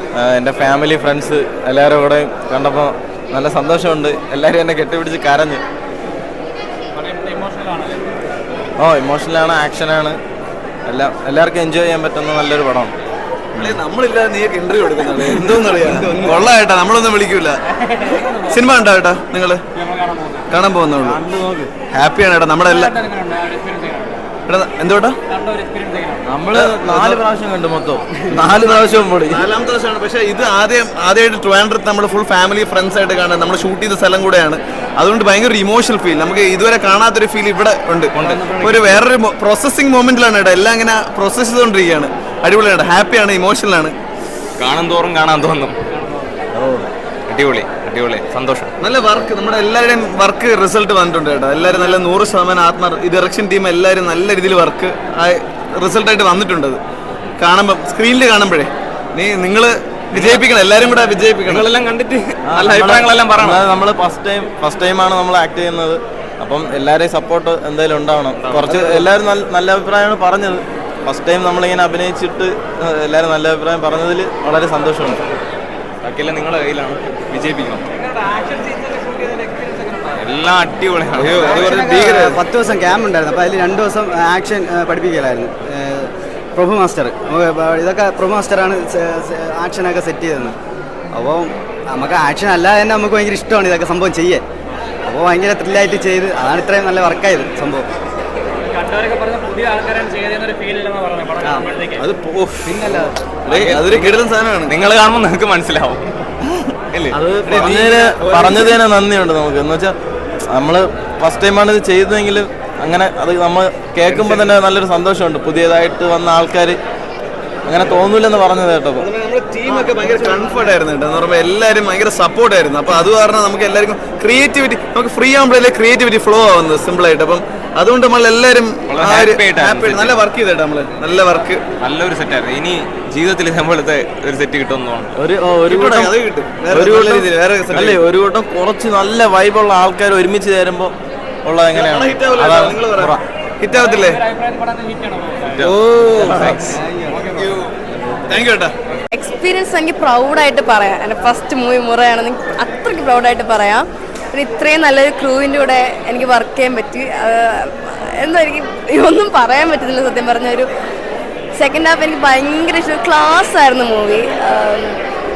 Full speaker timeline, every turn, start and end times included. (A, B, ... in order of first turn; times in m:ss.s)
0:00.2-0:05.6 A
0:07.0-0:08.1 B
0:08.8-0:10.2 A
0:10.9-0:13.0 A
0:13.6-0:19.6 C
0:17.9-0:18.6 B
0:19.8-0:20.5 B
0:20.5-0:21.2 C
0:21.0-0:21.7 A
0:21.9-0:22.9 C
0:22.7-0:24.2 B
0:24.5-0:25.2 C
0:25.3-0:26.3 B
0:26.3-0:29.5 A
0:26.5-0:27.2 C
0:28.4-0:44.0 C
0:38.2-0:39.0 D
0:44.6-0:45.8 D
0:47.3-0:48.7 D
0:48.8-0:56.8 C
0:57.4-1:01.7 C
1:00.1-1:00.5 D
1:01.5-1:03.6 D
1:02.5-1:15.2 A
1:02.5-1:03.0 C
1:08.4-1:08.9 D
1:16.0-1:17.8 D
1:18.0-1:20.3 B
1:20.2-1:21.5 D
1:21.2-1:22.4 C
1:21.2-1:30.6 E
1:31.1-1:34.4 E
1:35.1-1:37.9 E
1:38.6-1:42.0 B
1:43.0-1:44.8 C
1:43.5-1:46.1 D
1:46.9-1:48.7 D
1:47.1-1:50.0 A
1:50.5-1:56.8 A
1:54.1-1:54.6 D
1:57.7-1:59.1 A
1:59.0-2:11.6 C
2:08.9-2:10.3 D
2:11.8-2:15.1 D
2:15.2-2:16.1 A
2:15.7-2:18.0 C
2:16.7-2:23.2 A
2:21.7-2:24.2 C
2:23.7-2:25.7 B
2:25.6-2:26.6 A
2:26.2-2:26.5 C
2:26.4-2:26.7 D
2:26.7-2:27.3 E
2:27.1-2:27.6 B
2:28.3-2:28.8 C
2:29.1-2:40.7 F
2:41.6-2:45.0 F